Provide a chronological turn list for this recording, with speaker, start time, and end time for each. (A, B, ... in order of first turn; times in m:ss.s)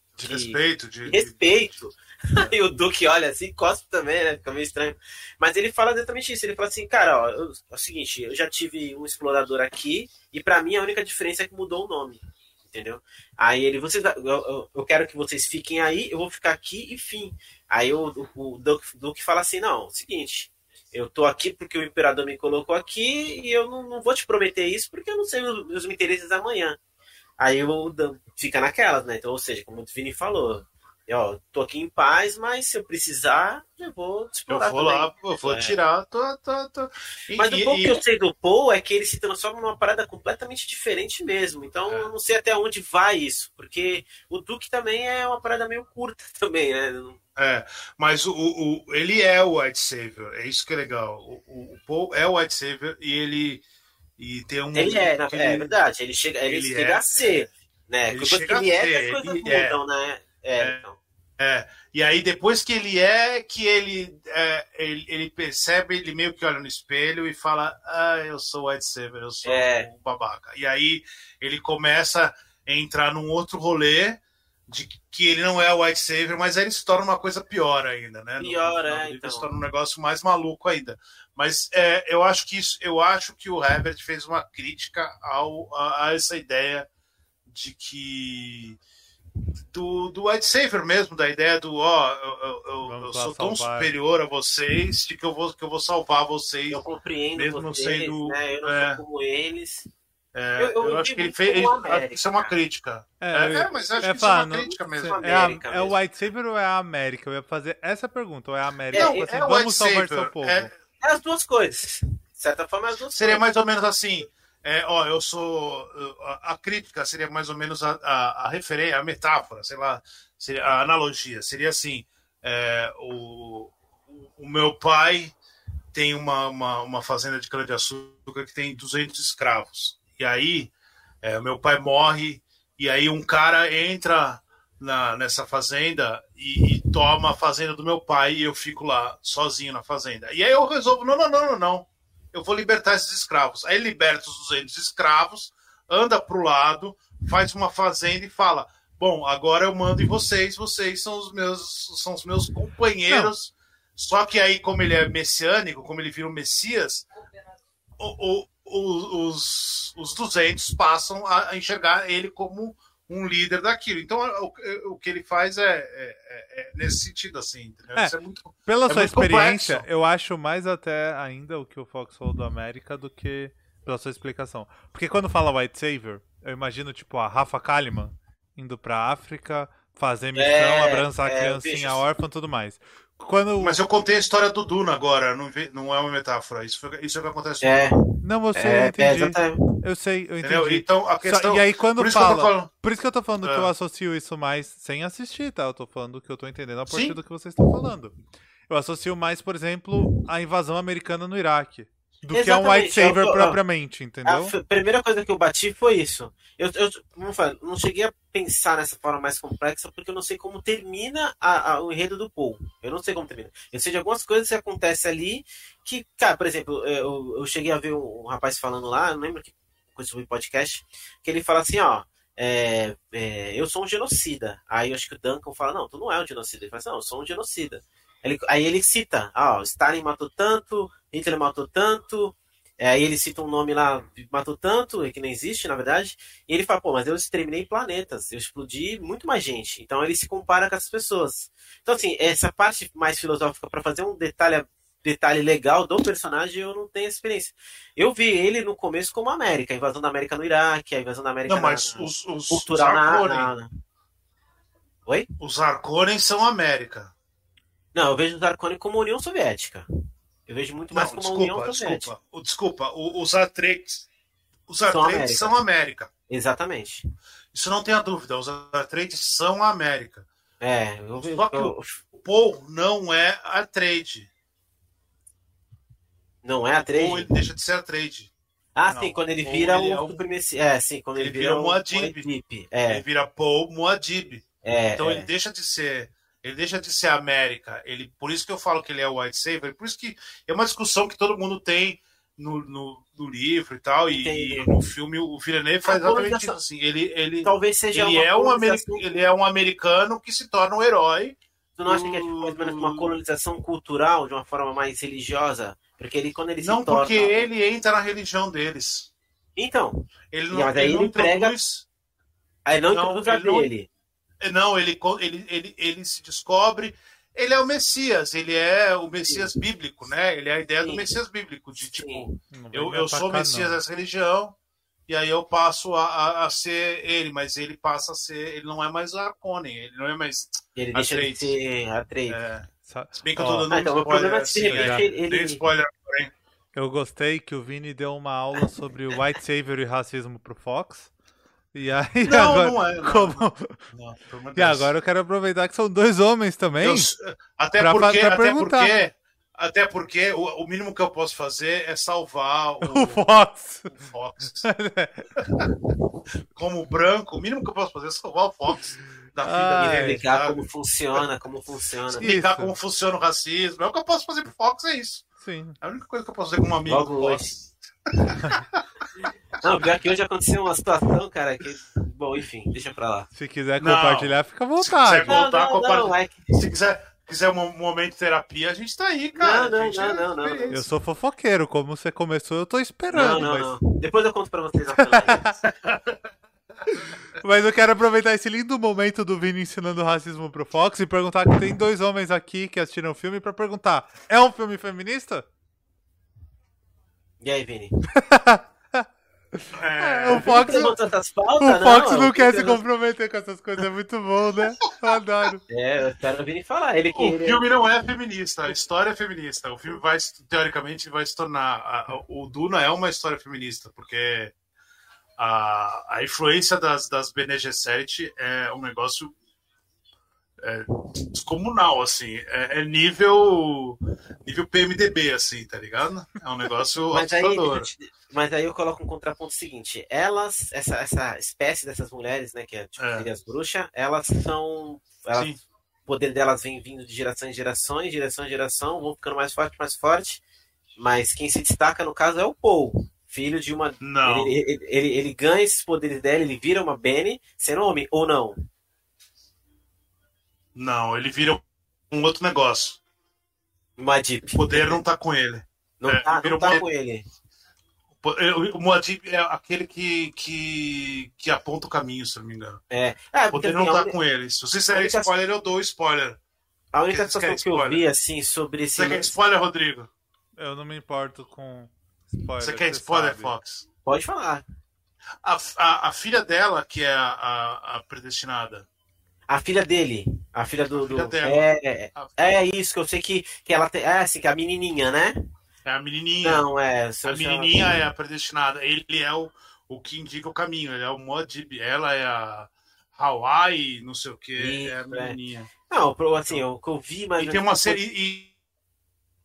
0:00.2-0:01.5 A
0:00.2-0:26.8 B
0:27.4-0:35.8 B
0:34.5-0:38.0 A
0:37.3-0:47.2 B
0:41.9-0:42.1 A
0:47.4-0:53.6 A
0:54.2-0:55.8 A
0:54.8-1:01.0 B
0:56.5-0:57.5 A
0:58.1-0:59.8 A
1:01.4-1:26.9 A
1:09.4-1:09.9 B
1:18.4-1:19.5 B
1:27.5-1:28.8 A
1:29.7-1:36.8 A
1:32.8-1:33.9 C
1:36.7-1:39.9 B
1:37.4-1:39.0 A
1:40.3-1:45.2 A
1:40.6-1:42.5 B
1:43.2-1:50.7 C
1:45.0-1:46.0 B
1:48.9-1:50.8 A
1:51.0-1:53.4 B
1:53.1-2:05.4 A
2:05.9-2:37.1 A
2:33.1-2:33.3 C
2:38.0-2:49.9 A
2:48.7-3:03.8 C
3:00.4-3:02.0 B
3:03.6-3:08.0 A
3:07.6-3:08.0 B
3:08.2-3:18.2 C
3:08.6-3:09.6 B
3:10.4-3:12.7 A
3:13.4-3:13.7 A
3:16.9-3:17.2 A
3:18.7-3:24.5 C
3:22.3-3:23.6 B
3:24.3-4:13.7 B
4:11.5-4:13.5 A
4:15.4-4:17.1 A
4:17.9-4:19.9 B
4:20.5-4:22.1 B
4:20.9-4:24.1 A
4:24.7-4:26.1 A
4:24.9-4:25.6 B
4:26.3-4:27.0 B
4:27.5-4:30.3 A
4:30.6-4:32.0 B
4:31.2-4:34.3 A
4:36.4-4:37.3 B
4:37.0-4:38.3 A
4:38.8-4:43.0 B
4:38.9-4:39.2 C
4:39.4-4:40.2 A
4:41.2-4:42.3 A
4:42.9-4:44.4 A
4:44.6-4:45.3 B
4:45.0-5:03.1 A
4:54.1-4:54.8 B
4:55.9-4:56.6 B
4:57.4-4:59.0 B
5:01.8-5:07.5 B
5:06.6-5:09.1 A
5:09.6-5:10.0 B
5:10.3-5:11.9 A
5:10.5-5:11.5 B
5:12.7-5:13.9 B
5:12.9-5:13.7 A
5:14.4-5:24.6 A
5:20.8-5:21.1 B
5:21.8-5:22.3 B
5:22.5-5:23.8 C
5:25.1-5:31.6 A
5:30.8-5:32.4 B
5:32.3-5:36.3 A
5:32.8-5:33.7 C
5:33.7-5:35.6 B
5:34.7-5:35.1 C
5:36.7-5:41.1 C
5:41.7-5:43.9 C
5:42.2-5:44.9 A
5:44.6-5:47.1 C
5:46.8-5:53.2 A
5:47.8-5:49.0 C
5:52.8-5:54.0 C
5:53.9-5:54.7 A
5:54.6-5:55.3 C
5:55.4-5:55.6 A
5:56.6-6:01.2 A
5:59.4-6:00.2 C
5:59.8-6:02.3 B
6:02.1-6:05.3 A
6:02.2-6:02.8 C
6:05.4-6:05.8 C
6:05.8-6:08.8 A
6:06.9-6:07.5 B
6:09.6-6:13.3 B
6:13.4-6:15.5 C
6:13.8-6:20.9 A
6:15.3-6:16.6 B
6:19.4-6:20.8 B
6:20.7-6:23.8 C
6:23.1-6:25.5 B
6:25.0-6:25.6 C
6:25.7-6:26.2 A
6:27.4-6:35.5 C
6:37.4-6:38.0 B
6:38.2-6:40.9 C
6:39.7-6:40.8 A
6:40.3-6:42.8 B
6:41.6-6:45.6 C
6:45.7-6:47.7 B
6:47.1-6:54.5 A
6:55.4-6:59.3 A
7:00.6-7:07.9 A
7:07.1-7:15.5 B
7:13.0-7:13.3 A
7:15.3-7:15.6 A
7:16.1-7:20.4 B
7:21.0-7:28.6 B
7:24.0-7:24.6 A
7:30.8-7:33.0 A
7:34.0-7:35.0 B
7:34.6-7:36.8 A
7:36.0-7:37.3 B
7:38.2-7:42.8 A
7:42.9-7:44.2 B
7:43.5-7:46.4 A
7:44.9-7:45.3 B
7:46.9-7:49.3 B
7:47.1-7:48.0 A
7:49.0-7:50.1 A
7:50.6-7:53.5 C
7:52.6-7:53.8 A
7:54.0-7:54.6 B
7:55.4-7:58.9 A
7:59.5-8:05.4 B
8:00.9-8:02.5 A
8:05.9-8:06.6 A
8:06.4-8:07.9 B
8:07.2-8:15.7 A
8:14.6-8:15.4 B
8:15.9-8:18.0 B
8:17.4-8:18.5 A